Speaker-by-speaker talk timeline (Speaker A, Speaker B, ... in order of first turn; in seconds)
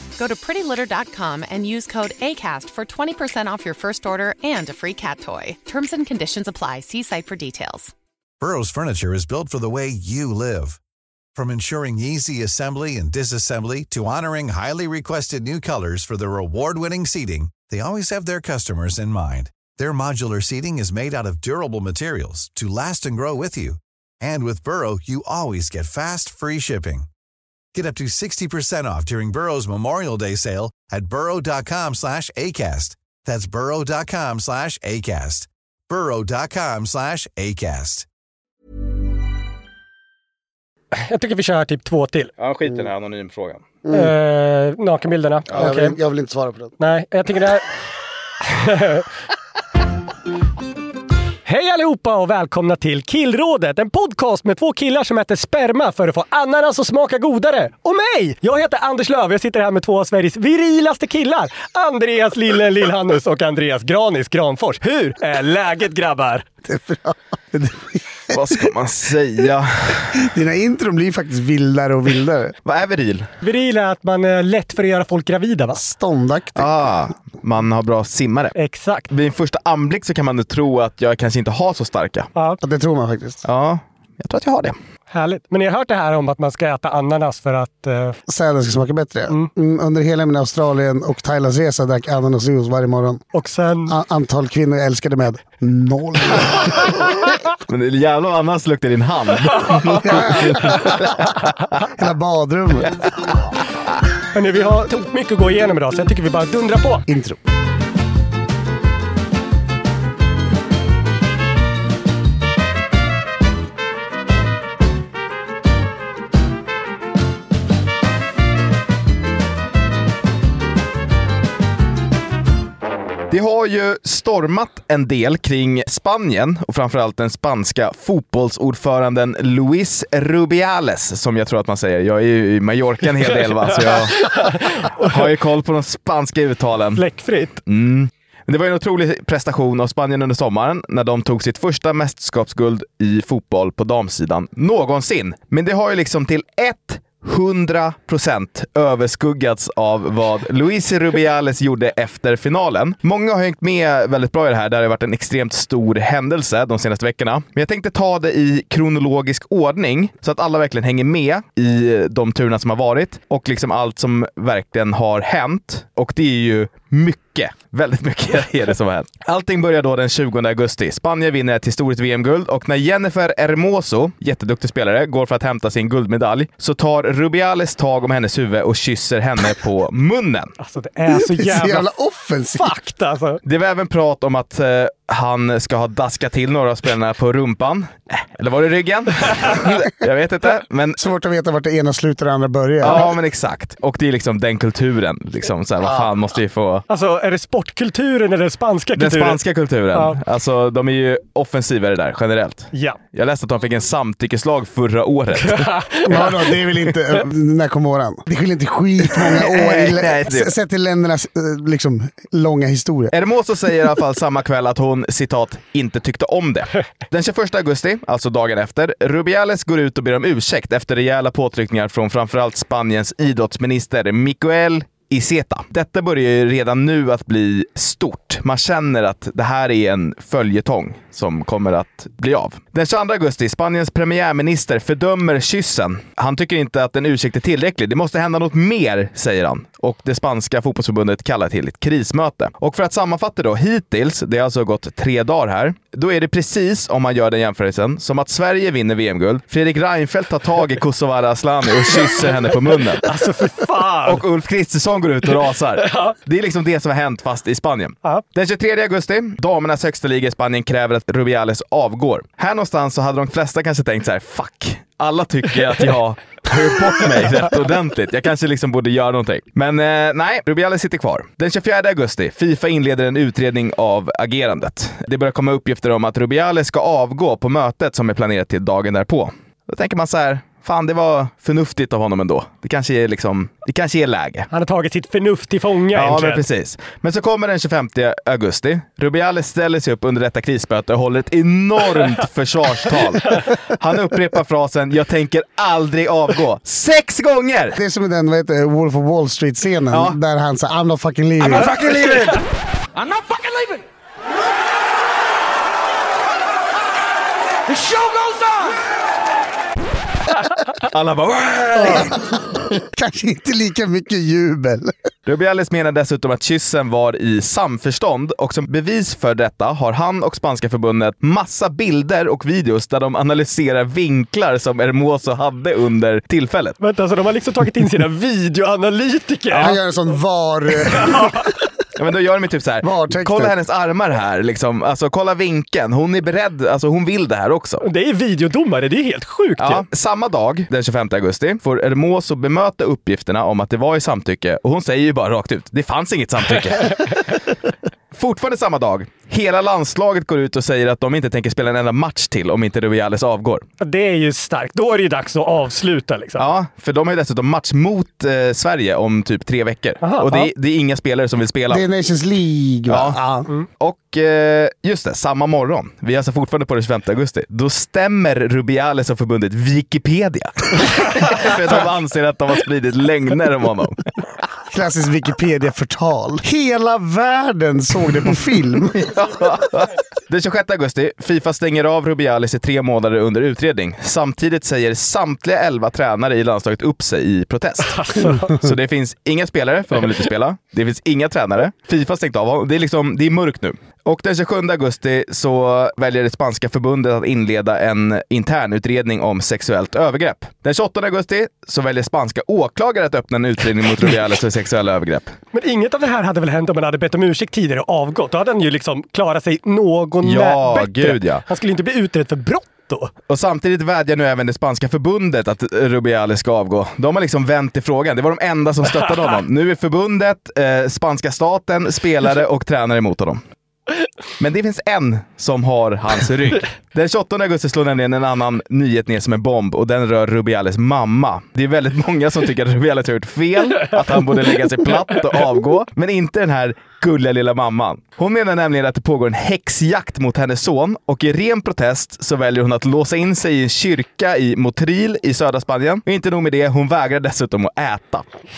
Speaker A: 0.2-7.9
Speaker B: 8.4-10.8, 11.4-27.1, 27.7-38.1
Speaker C: 41.0-42.3, 43.9-46.0, 46.8-47.7, 48.5-49.0, 51.5-66.5, 73.4-75.8, 78.6-79.1, 85.1-88.2, 93.3-94.0, 104.3-107.1, 134.1-135.2, 137.0-137.6, 180.6-181.9, 182.6-183.4, 196.9-199.4, 199.9-200.2, 205.5-206.1, 253.0-254.2, 255.8-256.1, 284.5-286.4, 326.8-329.8, 330.9-331.5, 337.8-339.9, 353.8-356.4, 360.0-360.5, 387.9-388.5, 405.5-413.1
Speaker D: 42.4-43.6, 68.3-70.3, 72.7-73.3, 76.6-78.5, 79.1-82.3, 83.5-84.8, 97.7-101.5, 123.3-137.0, 137.7-180.5, 183.4-191.0, 192.8-196.8, 199.0-206.2, 209.2-210.5, 213.1-253.1, 254.1-284.5, 285.9-297.8, 299.9-300.2, 310.8-312.2, 315.3-326.8, 332.0-337.8, 339.6-347.2, 348.1-353.6, 356.4-361.8, 362.9-363.2, 363.8-374.0, 378.9-405.3, 410.2-411.4, 413.3-423.4, 424.4-448.2
Speaker E: 43.8-44.1, 45.5-46.8, 66.7-68.4, 70.2-72.6, 75.8-76.7, 82.6-83.4, 88.3-93.2, 93.9-96.9, 100.0-101.2, 102.0-103.1, 107.1-107.4, 181.2-182.7, 191.0-193.1, 206.1-213.1, 297.8-301.8, 312.8-314.9, 329.5-331.4, 332.8-333.5, 361.7-363.5, 374.7-379.1
Speaker F: 301.4-302.4, 303.0-303.8, 307.7-308.8